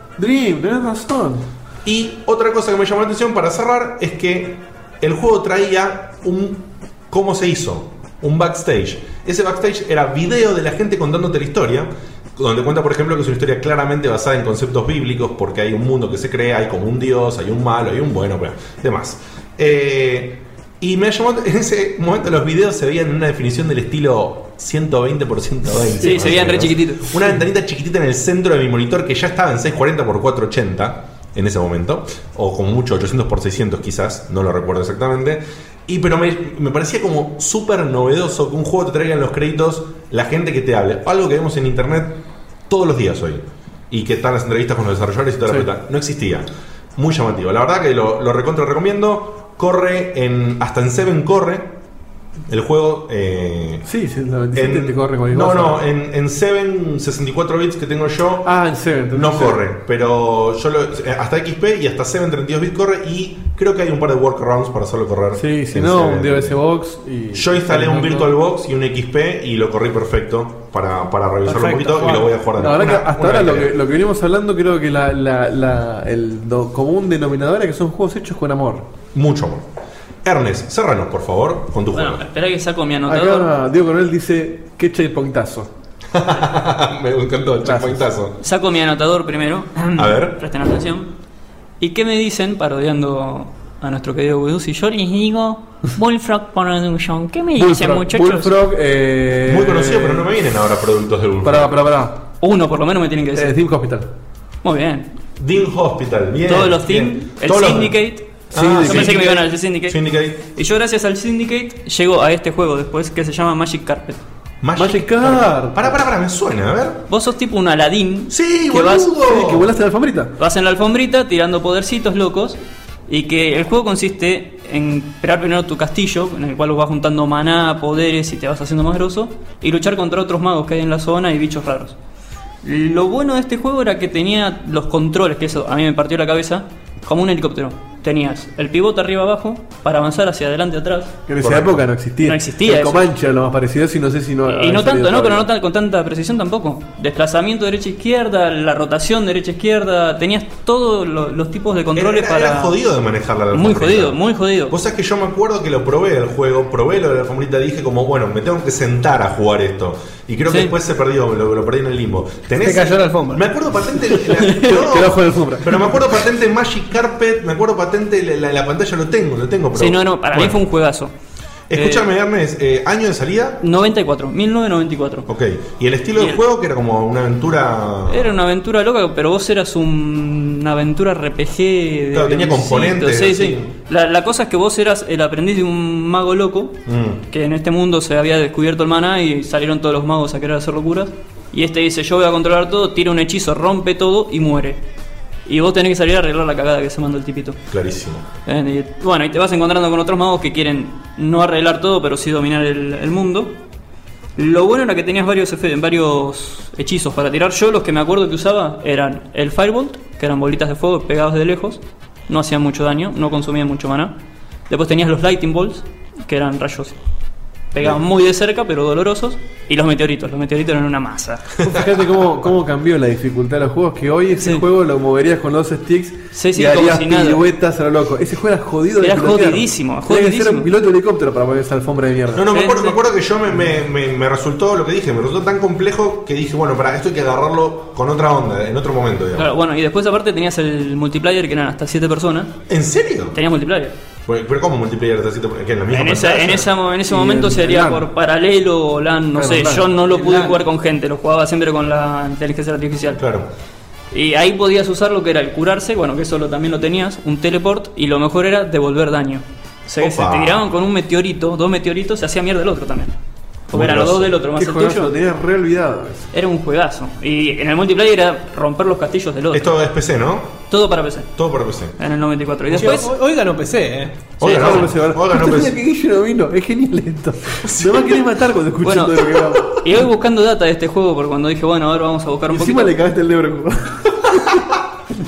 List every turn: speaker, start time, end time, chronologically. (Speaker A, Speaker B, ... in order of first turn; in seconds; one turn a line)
Speaker A: 0.2-1.4
Speaker B: 1.8-51.7
Speaker C: 26.0-27.2
Speaker B: 52.5-53.9
Speaker A: 53.9-55.8
Speaker B: 54.5-58.5
Speaker A: 58.4-59.6
Speaker B: 59.1-66.6
Speaker A: 65.3-68.3
Speaker B: 67.3-73.8
Speaker A: 72.6-78.9
Speaker B: 79.1-79.7
Speaker B: 80.2-82.2
Speaker C: 81.9-83.5
Speaker A: 83.1-85.7
Speaker B: 86.1-88.4
Speaker A: 87.7-88.1
Speaker C: 88.4-91.1
Speaker B: 90.0-90.4
Speaker C: 91.8-98.5
Speaker A: 97.5-100.3
Speaker B: 99.5-101.8
Speaker A: 101.4-102.2
Speaker C: 102.4-103.5
Speaker A: 103.3-104.1
Speaker C: 104.6-105.1
Speaker B: 105.4-108.0
Speaker C: 106.5-114.2
Speaker B: 108.5-110.4
Speaker A: 108.5-109.3
Speaker B: 114.6-117.1
Speaker A: 114.8-115.9
Speaker C: 117.1-119.2
Speaker B: 118.3-119.7
Speaker A: 119.3-120.3
Speaker C: 120.4-131.9
Speaker C: 132.6-141.2
Speaker A: 141.3-145.5
Speaker B: 141.4-141.8
Speaker C: 142.2-143.1
Speaker C: 144.5-152.8
Speaker B: 151.9-170.6
Speaker C: 153.5-154.8
Speaker C: 160.5-160.7
Speaker D: 162.6-163.5
Speaker A: 164.6-166.0
Speaker C: 169.8-171.1
Speaker B: 171.7-173.6
Speaker C: 171.7-172.1
Speaker C: 173.6-175.3
Speaker B: 175.3-178.4
Speaker C: 178.1-186.8
Speaker B: 182.1-183.7
Speaker B: 186.9-187.2
Speaker C: 187.3-194.8
Speaker C: 195.5-197.6
Speaker B: 197.7-198.3
Speaker C: 198.5-203.5
Speaker C: 204.4-214.1
Speaker C: 214.7-217.0
Speaker C: 217.7-221.4
Speaker A: 221.6-232.5
Speaker C: 224.4-224.6
Speaker C: 226.3-227.4
Speaker C: 229.0-230.7
Speaker B: 232.3-239.5
Speaker C: 232.5-233.0
Speaker C: 239.4-242.5
Speaker B: 242.7-243.4
Speaker C: 243.3-243.9
Speaker B: 244.3-246.7
Speaker C: 245.9-253.2
Speaker A: 247.1-248.1
Speaker A: 249.4-250.6
Speaker B: 253.2-253.5
Speaker C: 254.1-263.1
Speaker B: 260.0-260.7
Speaker C: 263.7-265.1
Speaker B: 263.7-264.3
Speaker A: 264.6-266.3
Speaker C: 266.3-269.8
Speaker B: 269.5-270.6
Speaker C: 270.7-271.3
Speaker B: 271.4-271.9
Speaker C: 272.0-273.1
Speaker D: 272.7-274.3
Speaker B: 274.4-275.8
Speaker A: 274.4-279.8
Speaker B: 277.6-278.2
Speaker C: 278.8-282.9
Speaker A: 282.5-284.6